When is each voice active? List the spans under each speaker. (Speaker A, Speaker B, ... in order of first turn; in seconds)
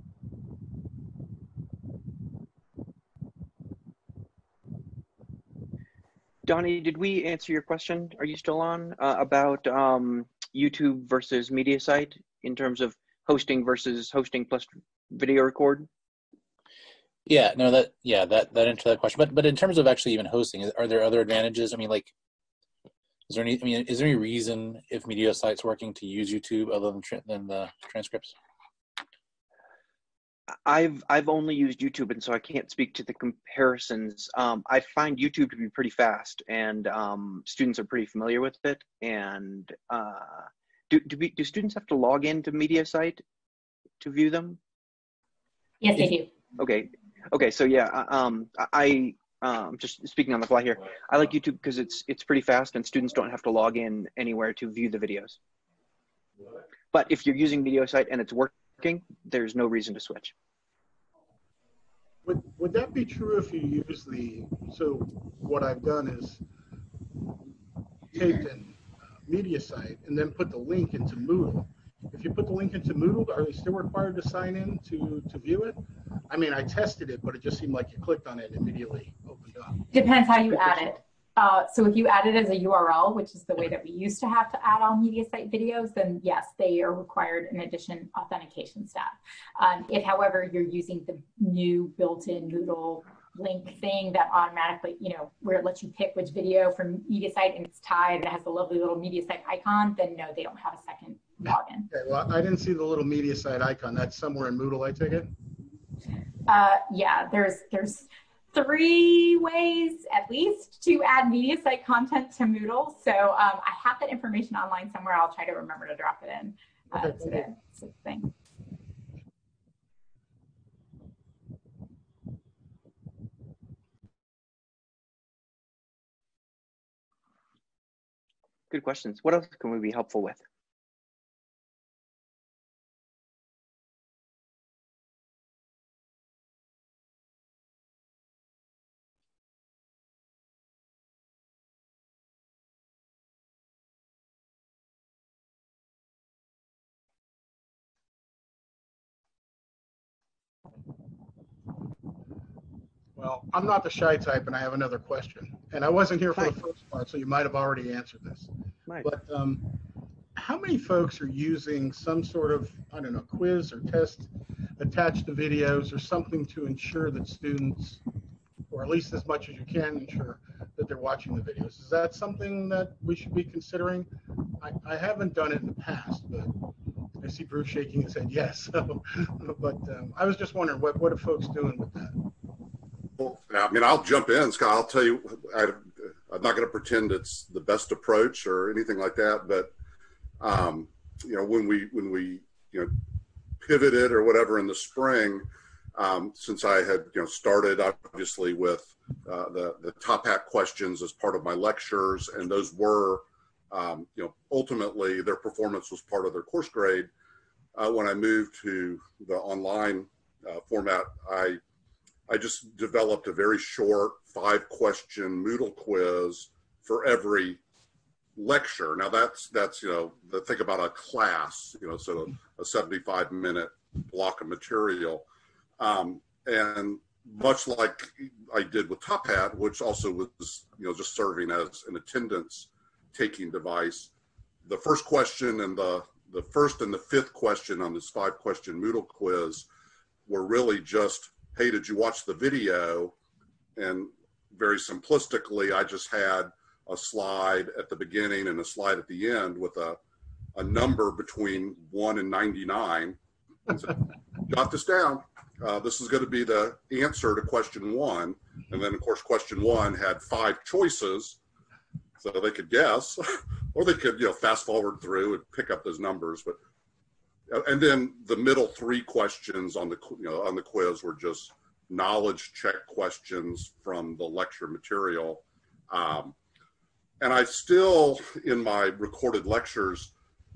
Speaker A: 6.4-15.9, 30.6-43.2, 44.0-44.6, 46.0-55.4, 56.9-60.3, 128.7-130.4
Speaker B: 17.2-22.1, 23.3-28.3
Speaker C: 45.8-46.3, 79.9-101.9, 106.5-118.3
Speaker D: 62.2-66.4, 68.1-75.8, 76.3-79.8, 80.5-81.0, 101.9-105.3, 116.9-117.5, 153.2-158.5, 159.0-159.7, 160.3-168.0, 168.7-174.1, 174.6-176.5, 177.2-182.2
Speaker E: 183.2-189.7, 190.4-192.9, 193.6-207.1, 207.7-211.6, 212.3-217.6, 218.3-225.2, 225.8-234.1, 234.6-239.7, 240.3-243.1, 243.8-250.0, 250.5-261.4, 262.2-266.6, 267.5-276.4, 277.2-280.1